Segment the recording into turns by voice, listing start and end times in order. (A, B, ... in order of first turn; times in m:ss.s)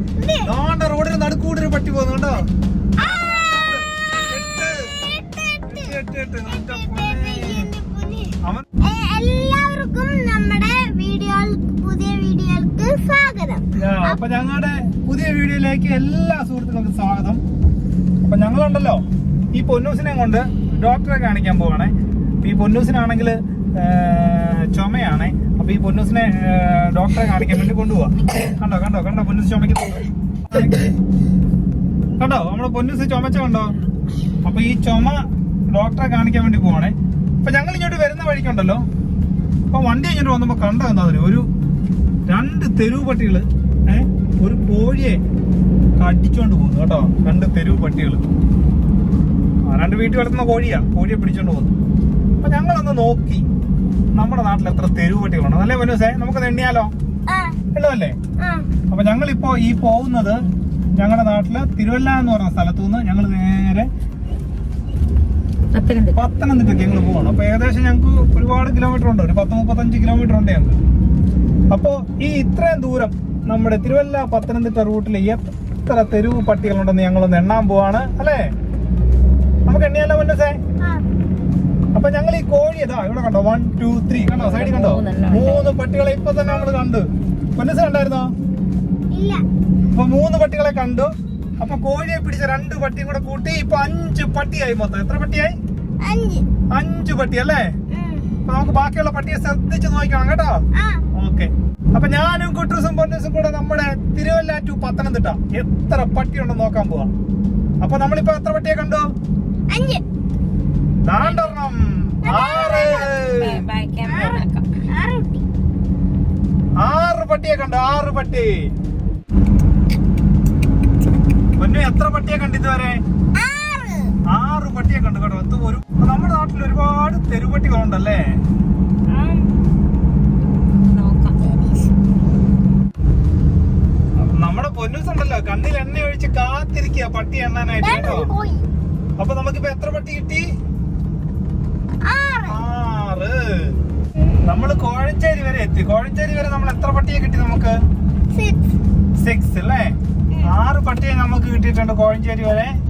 0:00.2-0:00.5 A
0:00.4-0:02.5 B
0:03.0-0:03.8 A
0:03.0-0:04.9 B
0:04.5-0:14.2 A
0:05.7-0:07.7 B
0:13.8-0:17.4 B
0:18.2-0:19.0 B
0:19.6-0:30.9 B
0:32.2-0:33.7 B
0:34.4-0:38.8 B
0:39.7-0:41.5 B
0:42.3-0:45.2 B
0:46.0-0:48.2 B
0:49.7-0:51.7 B
0:52.4-0:53.4 B
0:54.2-0:56.9 B
0:57.3-0:57.6 A
0:57.7-0:58.2 B
0:58.4-0:58.7 A
0:58.9-1:00.4 B
1:01.0-1:03.9 B
1:05.7-1:06.2 C
1:06.2-1:10.8 B
1:11.7-1:18.4 B
1:19.7-1:20.6 B
1:22.0-1:27.1 B
1:24.2-1:25.7 C
1:27.6-1:28.3 B
1:29.1-1:29.4 A
1:30.0-1:35.5 B
1:36.0-1:36.4 A
1:36.7-1:37.6 B
1:37.9-1:38.3 A
1:38.5-1:40.6 B
1:40.8-1:41.0 A
1:41.2-1:47.1 B
1:47.8-1:49.0 B
1:49.7-1:50.0 A
1:51.0-1:53.6 B
1:51.2-1:51.7 C
1:52.2-1:53.1 A
1:52.5-1:54.7 C
1:54.0-1:54.4 A
1:54.9-1:55.5 A
1:56.8-1:58.5 B
2:01.6-2:03.0 B
2:03.4-2:04.2 A
2:04.3-2:08.2 B
2:09.1-2:09.5 A
2:10.8-2:11.4 C
2:11.4-2:11.9 A
2:14.2-2:18.3 B
2:17.8-2:18.7 A
2:19.2-2:20.5 B
2:22.0-2:22.6 A
2:22.5-2:23.8 B
2:24.5-2:27.8 B
2:28.3-2:28.6 A
2:29.2-2:32.7 B